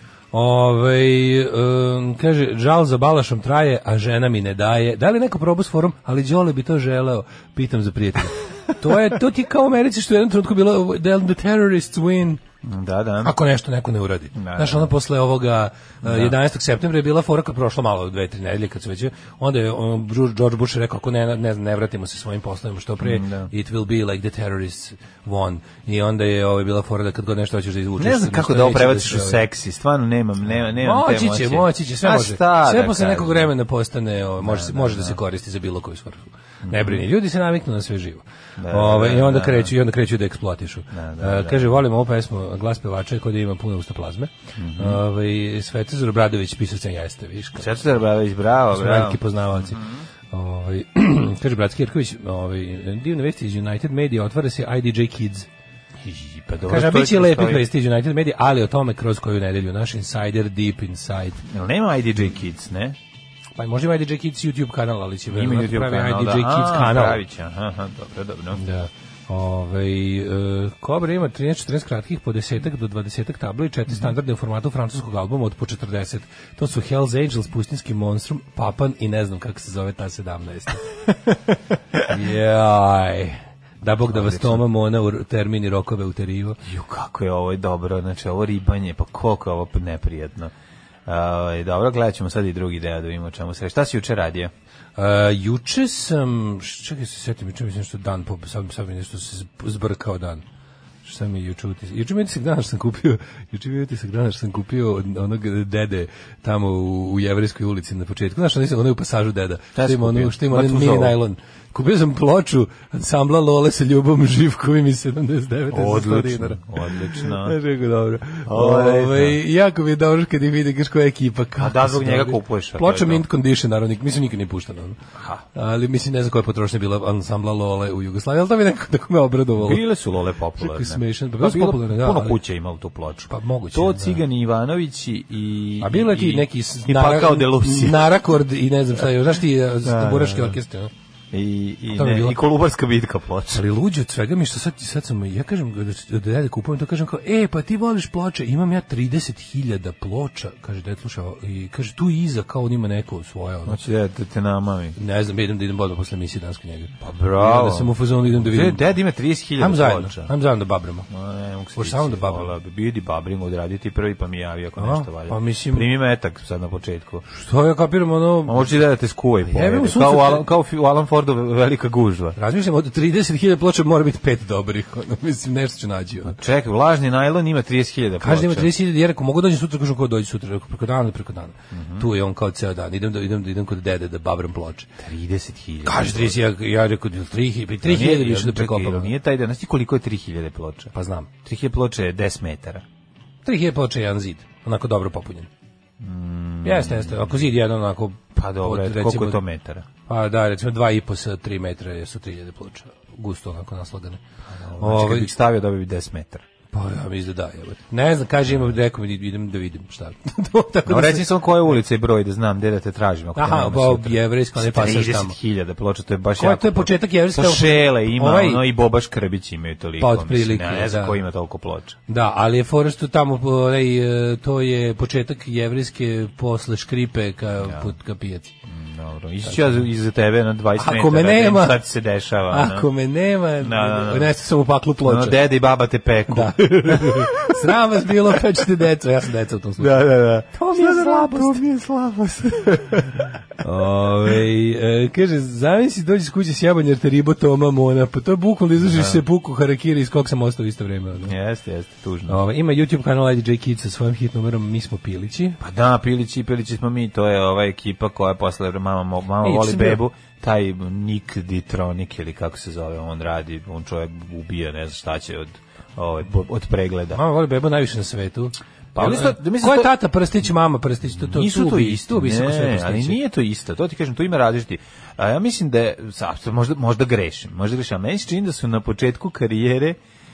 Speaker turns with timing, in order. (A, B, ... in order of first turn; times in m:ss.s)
0:00.3-0:12.4 A
0:12.6-0:13.4 B
0:13.2-0:29.4 A
0:14.4-0:14.9 B
0:16.0-0:16.4 B
0:23.0-0:23.5 B
0:28.0-0:33.5 B
0:30.6-0:47.8 A
0:34.4-0:35.2 B
0:36.6-0:37.0 B
0:38.6-0:39.7 B
0:40.9-0:41.8 B
0:44.6-0:45.0 B
0:47.6-0:50.0 B
0:48.7-0:49.8 A
0:50.3-0:55.5 A
0:56.0-0:57.7 B
0:56.6-1:01.4 A
1:01.5-1:03.0 B
1:03.6-1:07.2 A
1:05.3-1:08.6 B
1:08.6-1:20.8 A
1:22.1-1:26.6 A
1:24.1-1:24.6 B
1:26.6-1:30.5 B
1:31.1-1:34.5 B
1:35.0-1:40.4 A
1:41.0-2:05.0 A
1:49.8-1:51.2 B
1:55.7-1:57.6 B
1:58.5-1:59.4 B
2:01.6-2:03.2 B
2:05.5-2:09.8 A
2:09.6-2:18.1 B
2:10.6-2:12.4 A
2:13.3-2:14.2 A
2:15.8-2:20.9 A
2:19.8-2:20.6 B
2:21.3-2:23.6 B
2:21.9-2:22.4 A
2:23.5-2:33.8 A
2:33.7-2:35.0 B
2:35.0-2:38.8 A
2:37.0-2:40.3 B
2:39.6-2:41.1 A
2:41.1-2:47.2 B
2:41.8-2:42.5 A
2:44.8-2:45.9 A
2:47.3-2:48.8 A
2:48.5-2:52.4 B
2:49.5-2:50.4 A
2:52.4-2:56.4 A
2:56.3-2:58.7 B
2:58.2-3:04.9 A
3:01.7-3:02.1 B
3:05.0-3:06.4 B
3:05.8-3:09.1 A
3:07.8-3:10.9 B
3:10.9-3:11.3 A
3:11.4-3:12.8 B
3:13.4-3:15.5 A
3:16.0-3:17.5 B
3:16.6-3:19.4 A
3:18.4-3:19.9 B
3:20.1-3:24.2 A
3:24.5-3:26.4 B
3:24.8-3:25.3 A
3:26.7-3:31.3 A
3:30.9-3:42.0 B
3:33.4-3:35.4 A
3:36.4-3:38.6 A
3:40.0-3:41.2 A
3:42.1-3:48.5 A
3:47.6-3:47.9 B
3:48.7-3:52.9 B
3:50.8-3:51.8 A
3:52.5-3:55.4 A
3:53.6-3:54.3 B
3:55.0-3:57.6 B
3:56.3-4:01.6 A
3:59.8-4:03.3 B
4:03.6-4:11.3 A
4:08.8-4:09.2 B
4:11.2-4:12.4 B
4:12.3-4:15.6 A
4:15.6-4:27.2 B
4:19.4-4:20.0 A
4:27.1-4:33.2 A
4:29.0-4:29.9 B
4:31.2-4:40.0 B